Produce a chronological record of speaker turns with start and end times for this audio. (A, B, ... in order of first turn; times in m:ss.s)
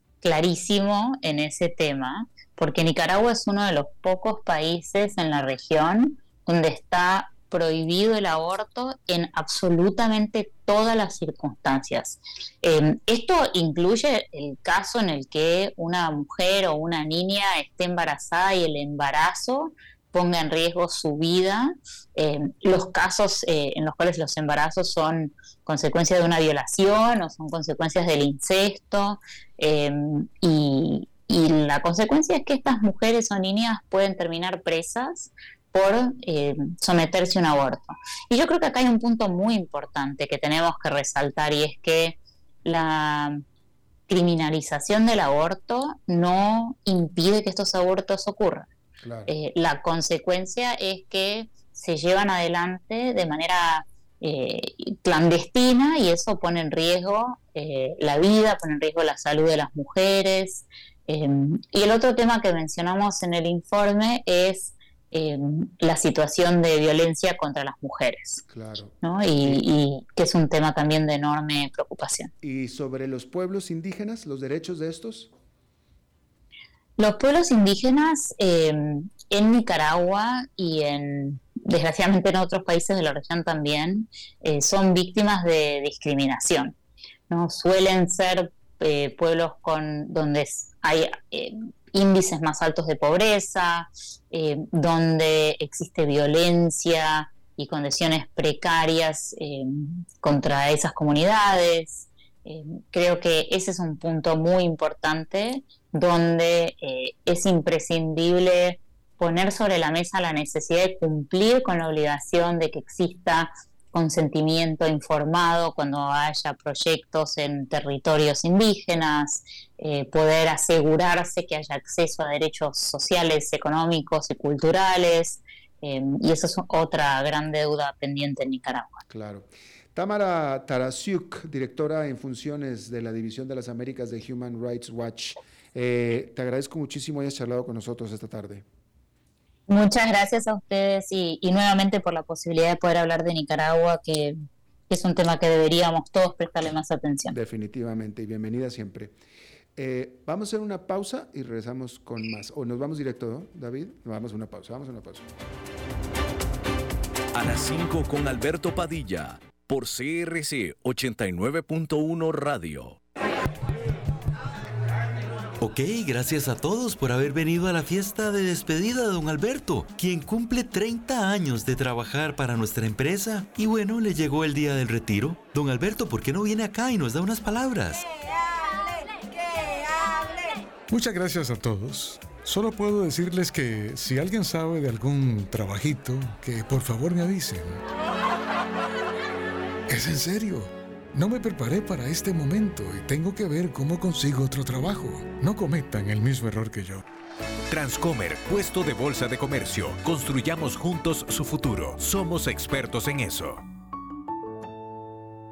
0:00.2-0:43.4 A
0:44.1-0:48.7 A
0:49.0-0:49.3 B
0:49.3-1:08.4 A
1:08.5-1:09.6 B
1:09.0-1:12.3 A
1:12.4-1:15.3 B
1:17.0-1:26.8 A
1:27.3-2:09.0 A
2:09.1-2:18.6 B
2:19.7-2:24.4 A
2:24.9-2:27.4 A
2:27.3-2:29.1 B
2:29.8-2:35.3 B
2:37.3-2:43.0 C
2:45.6-2:58.0 D
3:00.9-3:07.8 E
3:09.9-3:17.0 E
3:17.7-3:23.6 F